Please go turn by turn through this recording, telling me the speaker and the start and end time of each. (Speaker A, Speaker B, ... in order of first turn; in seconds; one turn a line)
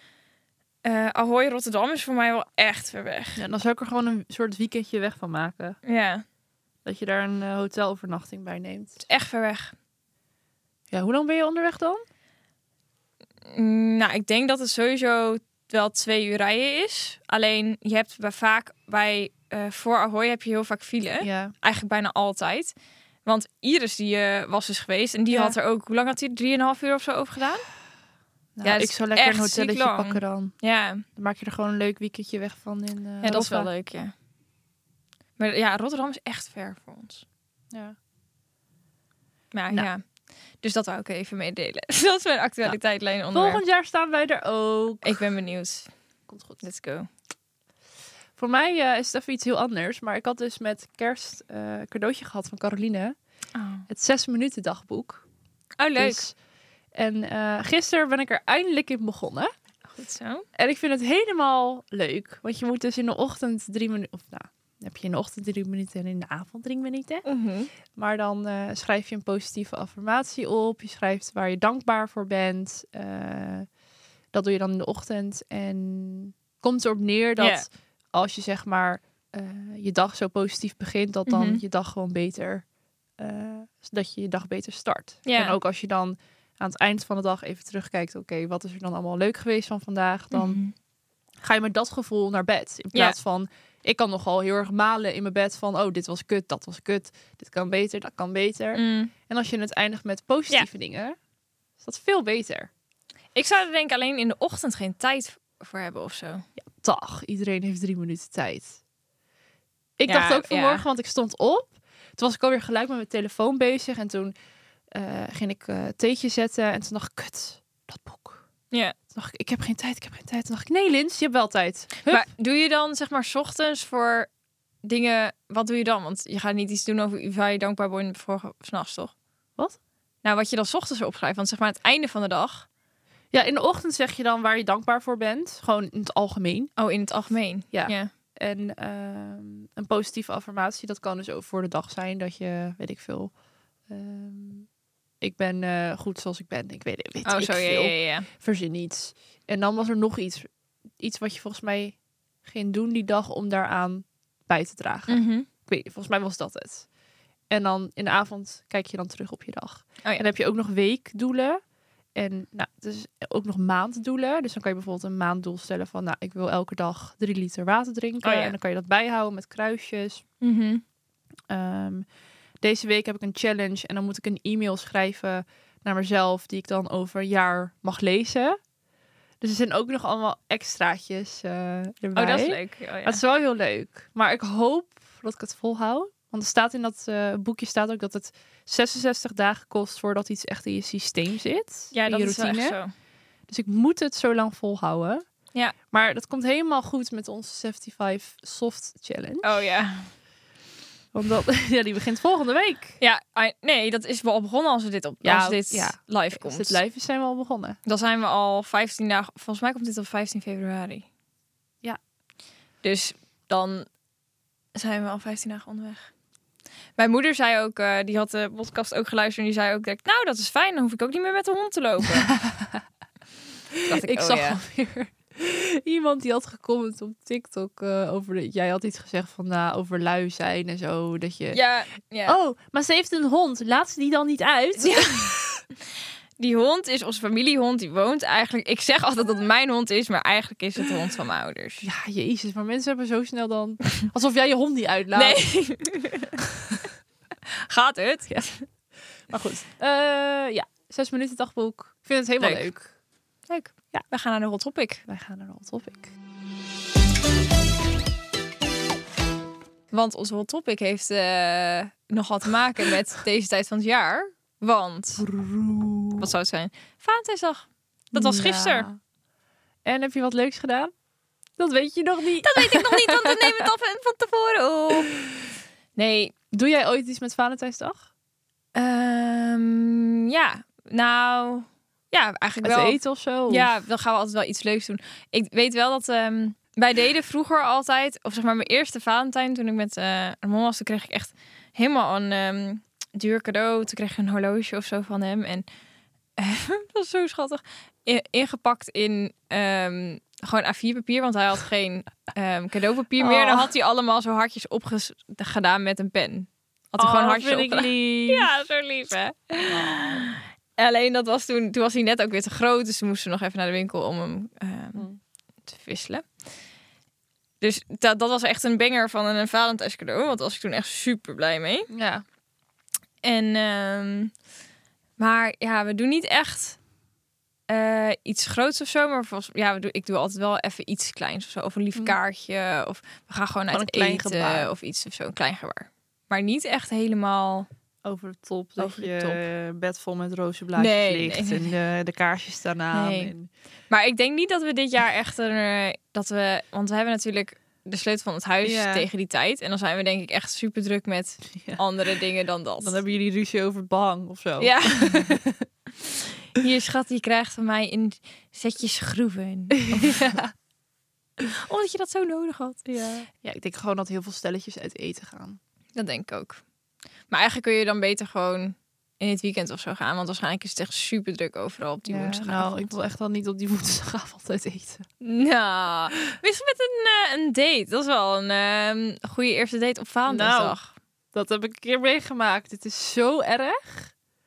Speaker A: 0.8-3.4
Speaker B: 3.4-5.8
Speaker A: 5.8-6.2
Speaker B: 6.8-9.0
Speaker A: 9.1-9.8
Speaker B: 10.9-12.0
Speaker A: 13.5-22.8
Speaker B: 21.2-21.5
Speaker A: 23.3-27.7
Speaker B: 25.3-25.6
Speaker B: 28.6-30.5
Speaker A: 28.6-31.0
Speaker B: 31.2-33.7
Speaker A: 33.2-34.1
Speaker A: 35.4-37.2
Speaker A: 39.5-40.0
Speaker A: 40.6-43.6
Speaker B: 43.3-45.3
Speaker A: 45.0-45.9
Speaker B: 46.3-46.6
Speaker A: 46.6-47.1
Speaker B: 48.4-53.1
Speaker A: 53.5-53.9
Speaker B: 53.9-55.2
Speaker A: 55.8-56.2
Speaker B: 56.0-56.4
Speaker B: 57.0-59.5
Speaker A: 59.9-60.5
Speaker B: 60.6-67.3
Speaker A: 67.3-67.7
Speaker B: 68.0-73.7
Speaker B: 74.3-82.7
Speaker A: 77.4-77.7
Speaker A: 81.3-81.6
Speaker B: 83.2-90.6
Speaker A: 85.3-85.6
Speaker A: 90.3-90.7
Speaker B: 91.4-101.2
Speaker A: 98.7-99.1
Speaker B: 101.8-102.7
Speaker A: 103.3-106.4
Speaker B: 106.6-108.8
Speaker B: 110.0-114.3
Speaker A: 110.1-110.8
Speaker B: 114.9-118.5
Speaker B: 119.1-122.3
Speaker A: 122.1-124.3
Speaker A: 124.8-129.1
Speaker A: 130.2-132.7
Speaker B: 133.3-136.7
Speaker A: 136.8-138.1
Speaker B: 137.7-143.3
Speaker B: 143.9-144.7
Speaker B: 145.2-150.5
Speaker A: 147.2-148.3
Speaker B: 151.0-156.9
Speaker A: 155.1-155.5
Speaker B: 157.5-161.6
Speaker B: 162.2-170.2
Speaker A: 168.2-168.6
Speaker A: 170.4-170.8
Speaker B: 171.5-172.1
Speaker B: 172.6-178.6
Speaker B: 179.4-192.8
Speaker A: 182.2-183.2
Speaker A: 191.9-192.9
Speaker B: 193.5-195.2
Speaker B: 195.9-199.6
Speaker A: 199.4-200.1
Speaker B: 201.1-203.0
Speaker A: 203.0-206.8
Speaker B: 205.2-207.8
Speaker A: 207.8-211.1
Speaker A: 212.8-213.9
Speaker A: 214.8-216.1
Speaker A: 217.0-222.3
Speaker B: 222.2-222.8
Speaker B: 223.7-231.6
Speaker A: 223.9-224.6
Speaker A: 231.5-232.4
Speaker B: 232.3-235.6
Speaker A: 234.8-235.4
Speaker A: 236.4-241.9
Speaker B: 241.8-245.4
Speaker A: 245.1-246.4
Speaker B: 246.6-246.8
Speaker A: 247.5-248.7
Speaker B: 249.3-252.9
Speaker A: 252.4-252.7
Speaker A: 253.5-255.0
Speaker B: 255.1-256.1
Speaker A: 259.9-265.2
Speaker B: 265.2-266.3
Speaker A: 266.2-268.9
Speaker B: 268.1-269.0
Speaker B: 269.9-270.9
Speaker B: 271.6-273.6
Speaker A: 272.4-275.1
Speaker A: 276.0-276.3
Speaker B: 276.5-278.1
Speaker A: 278.7-295.7
Speaker B: 282.6-283.7
Speaker A: 296.4-315.1
Speaker B: 303.2-303.7
Speaker B: 307.0-308.5
Speaker B: 309.6-310.3
Speaker A: 315.7-316.3
Speaker A: 317.6-321.9
Speaker B: 321.9-322.2
Speaker A: 323.2-324.3
Speaker A: 325.2-326.8
Speaker A: 327.7-337.7
Speaker B: 333.7-334.7
Speaker B: 338.1-343.5
Speaker A: 338.8-339.4
Speaker A: 340.8-341.7
Speaker A: 342.9-343.3
Speaker A: 343.9-353.0
Speaker B: 348.6-349.1
Speaker B: 351.6-351.8
Speaker B: 352.8-355.7
Speaker A: 354.6-355.4
Speaker A: 356.0-360.3
Speaker B: 359.7-360.5
Speaker A: 361.4-362.8
Speaker B: 362.9-365.6
Speaker A: 365.9-366.6
Speaker A: 367.3-372.9
Speaker B: 372.1-375.1
Speaker A: 375.2-380.9
Speaker B: 380.3-380.8
Speaker B: 381.3-384.1